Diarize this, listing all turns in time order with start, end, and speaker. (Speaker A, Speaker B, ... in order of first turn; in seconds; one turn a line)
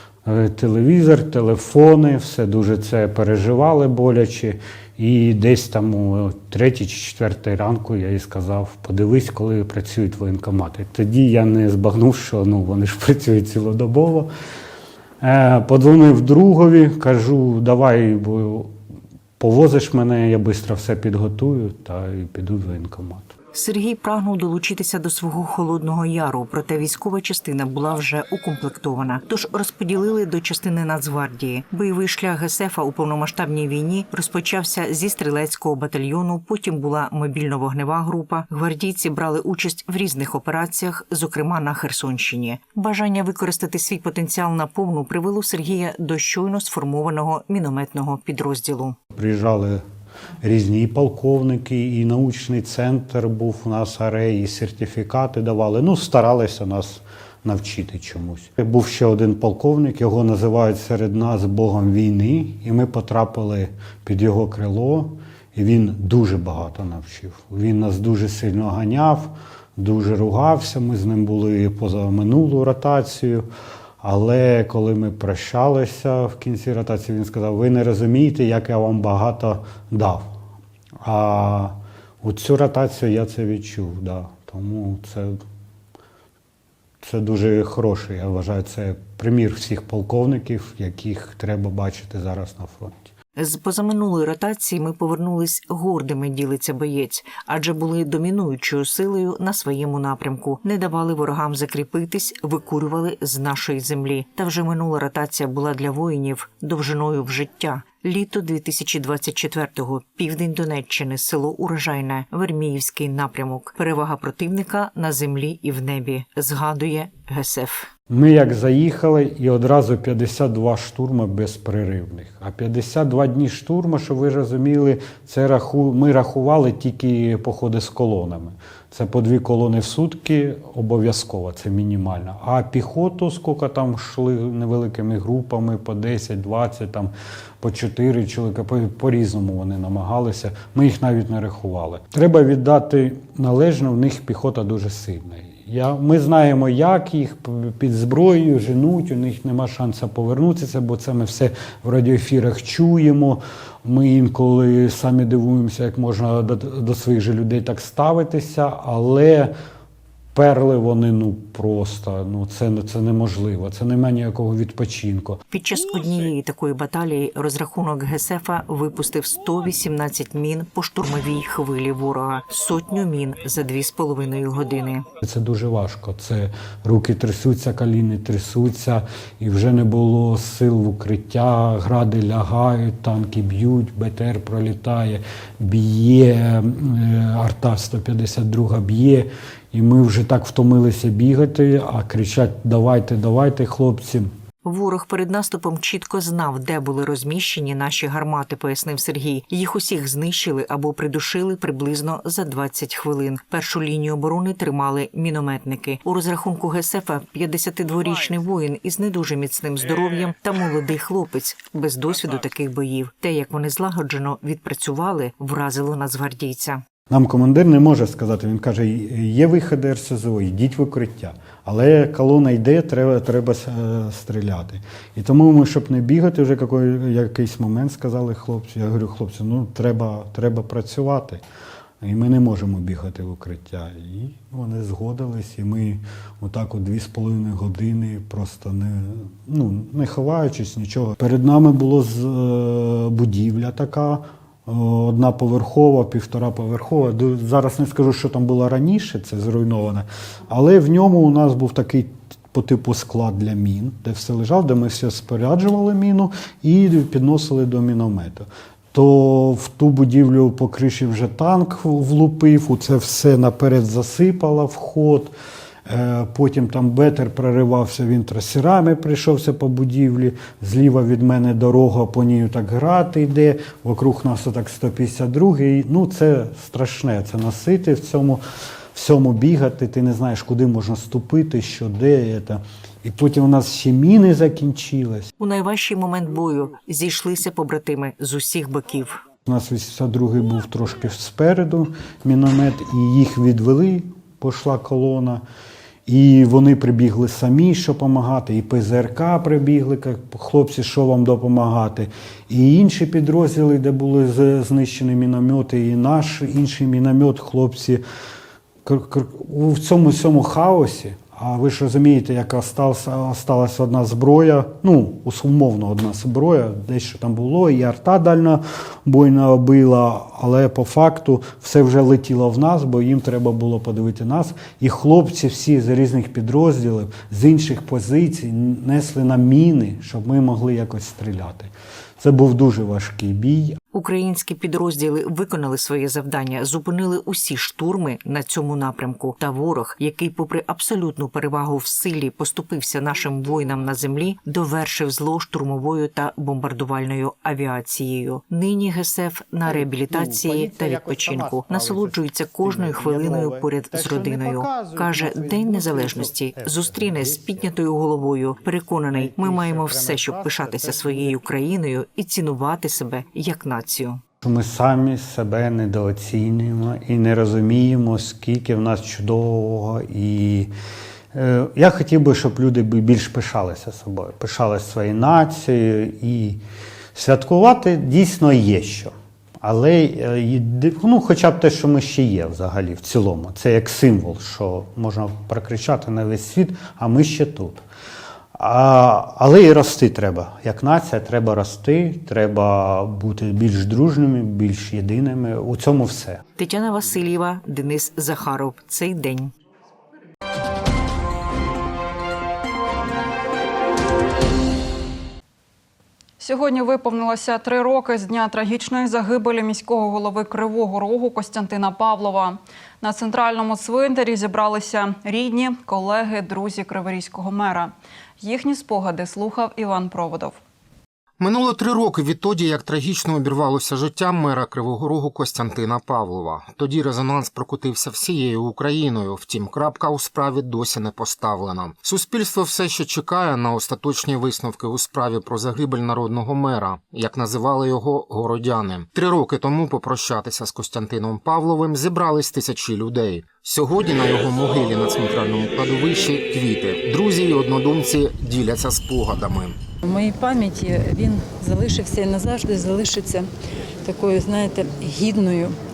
Speaker A: 0.2-14.3
Speaker A: 15.2-18.8
Speaker A: 19.4-23.3
Speaker B: 23.5-49.0
Speaker A: 49.1-49.8
Speaker A: 50.4-73.5
Speaker A: 74.0-80.3
Speaker A: 81.0-85.4
Speaker A: 87.0-93.1
Speaker B: 93.3-117.9
Speaker A: 118.1-159.5
Speaker A: 160.3-165.4
Speaker B: 165.5-175.0
Speaker A: 175.2-194.3
Speaker B: 194.6-216.8
Speaker A: 217.1-231.4
Speaker A: 232.0-265.3
Speaker A: 265.9-278.4
Speaker A: 278.9-285.3
Speaker B: 285.4-289.2
Speaker A: 289.4-295.4
Speaker A: 296.1-308.0
Speaker A: 308.8-333.8
Speaker B: 333.9-364.2
Speaker A: 350.1-357.6
Speaker A: 359.1-361.3
Speaker A: 364.4-370.7
Speaker A: 371.3-376.6
Speaker A: 377.1-387.8
Speaker A: 388.5-396.4
Speaker B: 396.6-399.5
Speaker C: 406.4-420.6
Speaker D: 421.4-449.8
Speaker E: 450.0-453.5
Speaker E: 454.0-455.7